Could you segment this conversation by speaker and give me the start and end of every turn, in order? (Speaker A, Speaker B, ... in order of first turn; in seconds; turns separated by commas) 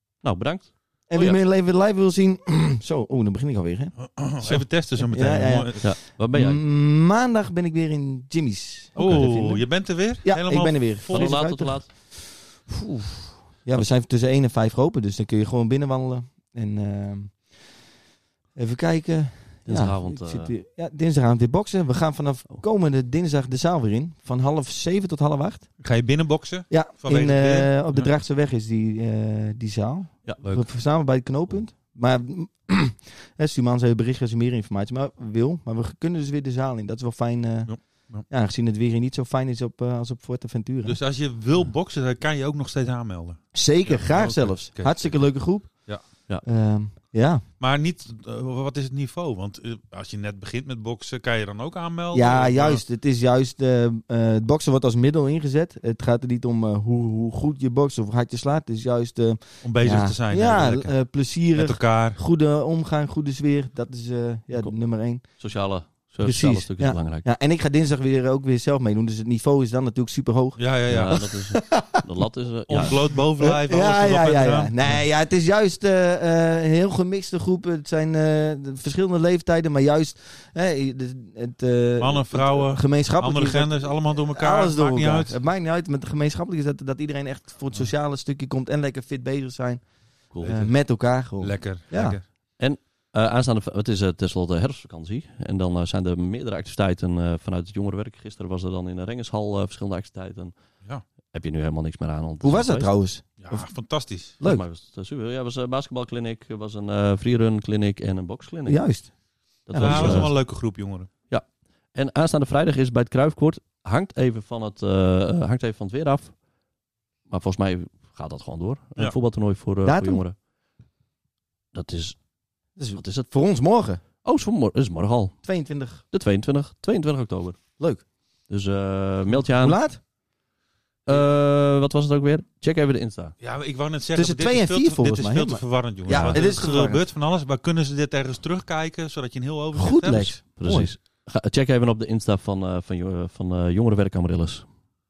Speaker A: 0.2-1.4, Speaker B: 1.1-17.5, Speaker C: 4.0-5.8, Speaker A: 5.8-6.6, Speaker C: 9.0-11.6, Speaker A: 11.1-11.9, Speaker B: 18.5-25.7, Speaker A: 19.6-20.5, Speaker C: 25.8-28.1, Speaker B: 26.7-41.0, Speaker A: 30.2-30.7, Speaker C: 37.7-38.2, Speaker C: 40.8-46.0, Speaker B: 43.5-47.4, Speaker C: 47.6-52.8, Speaker B: 52.1-65.6, Speaker C: 59.6-62.2, Speaker A: 64.5-67.3, Speaker B: 66.2-72.0, Speaker C: 70.6-71.3, Speaker A: 70.9-73.0, Speaker C: 72.7-75.0, Speaker B: 73.4-92.2, Speaker C: 82.0-85.4, Speaker C: 90.4-92.2, Speaker A: 92.6-100.5, Speaker A: 101.3-102.9, Speaker B: 102.4-103.7, Speaker C: 103.4-104.3, Speaker B: 104.4-104.6, Speaker A: 104.4-108.8, Speaker B: 108.7-109.1, Speaker B: 109.7-110.3, Speaker A: 109.7-110.3, Speaker C: 109.8-111.1, Speaker A: 111.3-116.3, Speaker A: 117.3-120.3, Speaker B: 119.8-120.2, Speaker A: 121.7-122.2, Speaker B: 122.8-124.0, Speaker A: 123.0-123.3, Speaker A: 124.2-125.4, Speaker B: 125.4-126.0, Speaker A: 126.1-127.6, Speaker B: 127.8-128.0, Speaker A: 128.5-129.8, Speaker B: 129.4-130.0, Speaker A: 131.1-133.3, Speaker C: 133.4-140.4, Speaker B: 134.1-137.0, Speaker A: 136.2-136.5, Speaker B: 139.7-140.9, Speaker A: 140.6-144.6